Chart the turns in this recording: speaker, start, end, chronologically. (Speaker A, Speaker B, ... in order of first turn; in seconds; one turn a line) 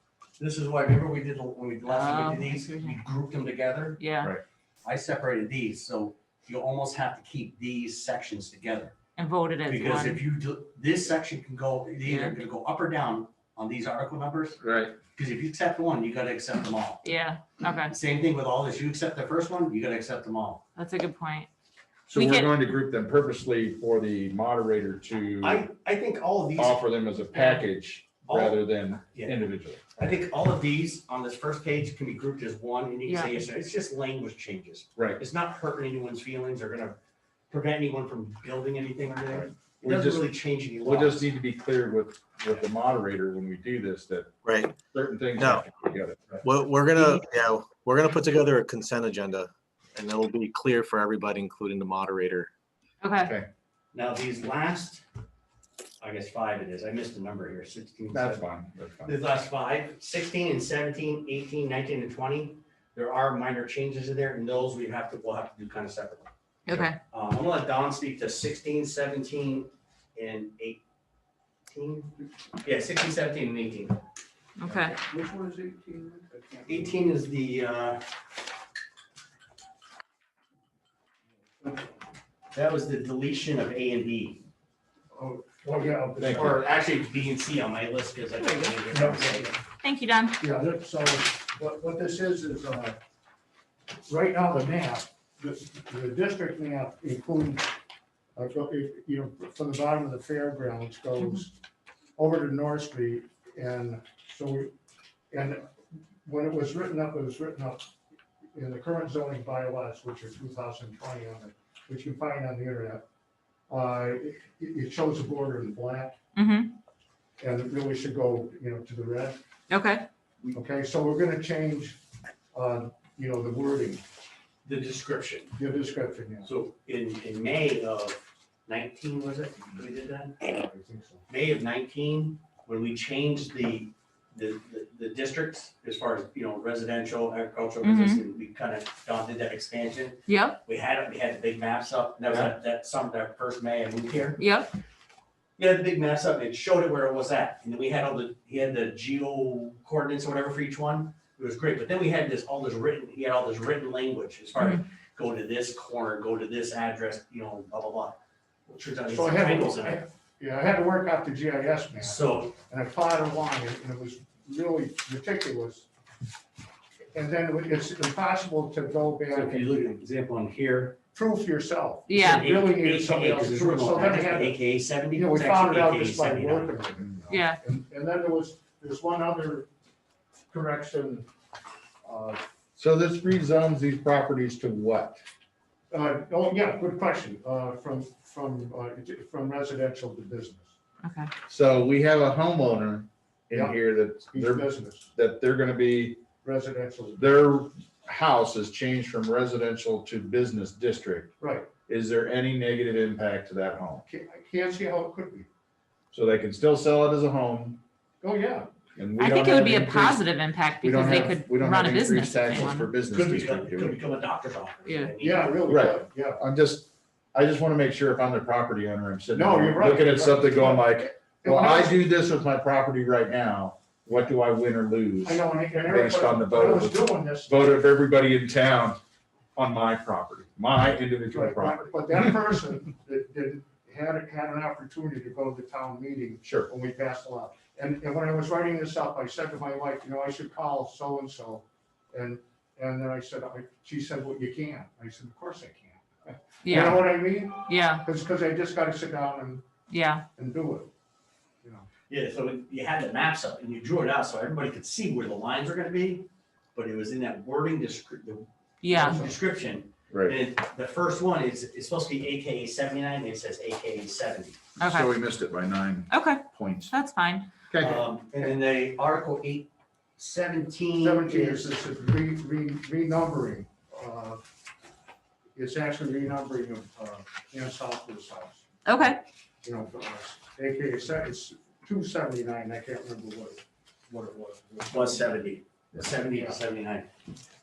Speaker A: 0.4-4.0
Speaker B: 1.9-3.0
Speaker B: 4.0-4.3
Speaker A: 4.8-9.0
Speaker B: 9.2-10.2
Speaker A: 9.7-14.6
Speaker B: 12.0-12.3
Speaker C: 14.6-15.0
Speaker A: 15.2-17.1
Speaker B: 17.0-17.9
Speaker A: 17.9-20.6
Speaker B: 20.8-21.5
Speaker C: 22.1-25.7
Speaker B: 22.1-22.5
Speaker A: 25.4-27.6
Speaker C: 26.6-29.9
Speaker A: 28.2-28.6
Speaker A: 29.1-29.4
Speaker A: 30.0-37.0
Speaker B: 33.1-33.4
Speaker C: 35.0-35.2
Speaker A: 37.5-41.2
Speaker C: 39.3-46.4
Speaker D: 44.4-44.8
Speaker D: 45.4-45.6
Speaker D: 46.4-52.5
Speaker B: 53.0-53.3
Speaker A: 53.9-55.0
Speaker A: 56.0-58.5
Speaker C: 58.1-59.2
Speaker A: 59.0-66.3
Speaker B: 66.7-67.0
Speaker A: 67.1-70.8
Speaker A: 71.7-74.0
Speaker B: 74.6-75.0
Speaker E: 74.7-77.1
Speaker A: 76.7-78.0
Speaker E: 81.6-81.9
Speaker A: 82.5-84.4
Speaker E: 85.1-86.7
Speaker C: 86.2-86.6
Speaker A: 86.2-89.5
Speaker B: 88.4-88.8
Speaker E: 88.9-89.6
Speaker B: 89.8-90.4
Speaker E: 90.4-93.0
Speaker E: 94.1-97.8
Speaker E: 98.3-101.6
Speaker E: 102.2-104.7
Speaker E: 105.3-107.9
Speaker E: 108.5-113.0
Speaker E: 113.7-116.2
Speaker B: 116.3-116.8
Speaker E: 117.4-119.4
Speaker B: 119.7-120.1
Speaker E: 120.5-122.0
Speaker E: 122.5-124.0
Speaker A: 124.7-125.6
Speaker E: 125.5-126.5
Speaker A: 126.4-130.4
Speaker E: 130.4-131.2
Speaker A: 131.3-144.4
Speaker B: 137.8-138.2
Speaker B: 140.3-140.6
Speaker B: 144.4-144.7
Speaker A: 145.6-160.1
Speaker E: 159.1-165.9
Speaker A: 162.0-162.6
Speaker E: 167.1-170.0
Speaker A: 169.3-171.0
Speaker E: 171.1-179.7
Speaker B: 172.1-172.5
Speaker A: 172.2-176.8
Speaker B: 177.3-177.6
Speaker E: 180.5-181.3
Speaker E: 182.0-182.4
Speaker C: 182.8-185.2
Speaker E: 185.9-190.7
Speaker B: 191.0-191.3
Speaker C: 191.5-196.2
Speaker E: 193.5-193.8
Speaker E: 194.3-195.1
Speaker E: 196.4-197.4
Speaker C: 197.2-201.3
Speaker E: 201.4-201.7
Speaker C: 201.9-204.0
Speaker E: 204.0-205.5
Speaker C: 206.1-207.8
Speaker E: 208.2-208.7
Speaker C: 209.0-210.2
Speaker B: 209.2-212.9
Speaker C: 210.8-214.0
Speaker A: 213.1-215.6
Speaker B: 214.8-215.1
Speaker E: 215.2-216.4
Speaker C: 215.7-229.0
Speaker E: 219.3-222.1
Speaker E: 225.2-227.9
Speaker C: 229.6-232.3
Speaker E: 231.3-249.7
Speaker C: 236.4-236.7
Speaker B: 246.6-248.0
Speaker B: 249.9-250.2
Speaker E: 250.4-250.9
Speaker E: 251.6-251.9
Speaker A: 252.1-264.6
Speaker B: 258.8-259.2
Speaker E: 258.9-259.4
Speaker C: 260.1-260.4
Speaker B: 264.8-265.1
Speaker C: 264.8-266.9
Speaker B: 266.1-267.5
Speaker C: 267.7-268.1
Speaker A: 267.8-271.7
Speaker E: 271.0-274.4
Speaker E: 275.6-278.7
Speaker B: 278.9-279.2
Speaker E: 279.6-285.4
Speaker A: 284.9-287.1
Speaker E: 286.2-286.6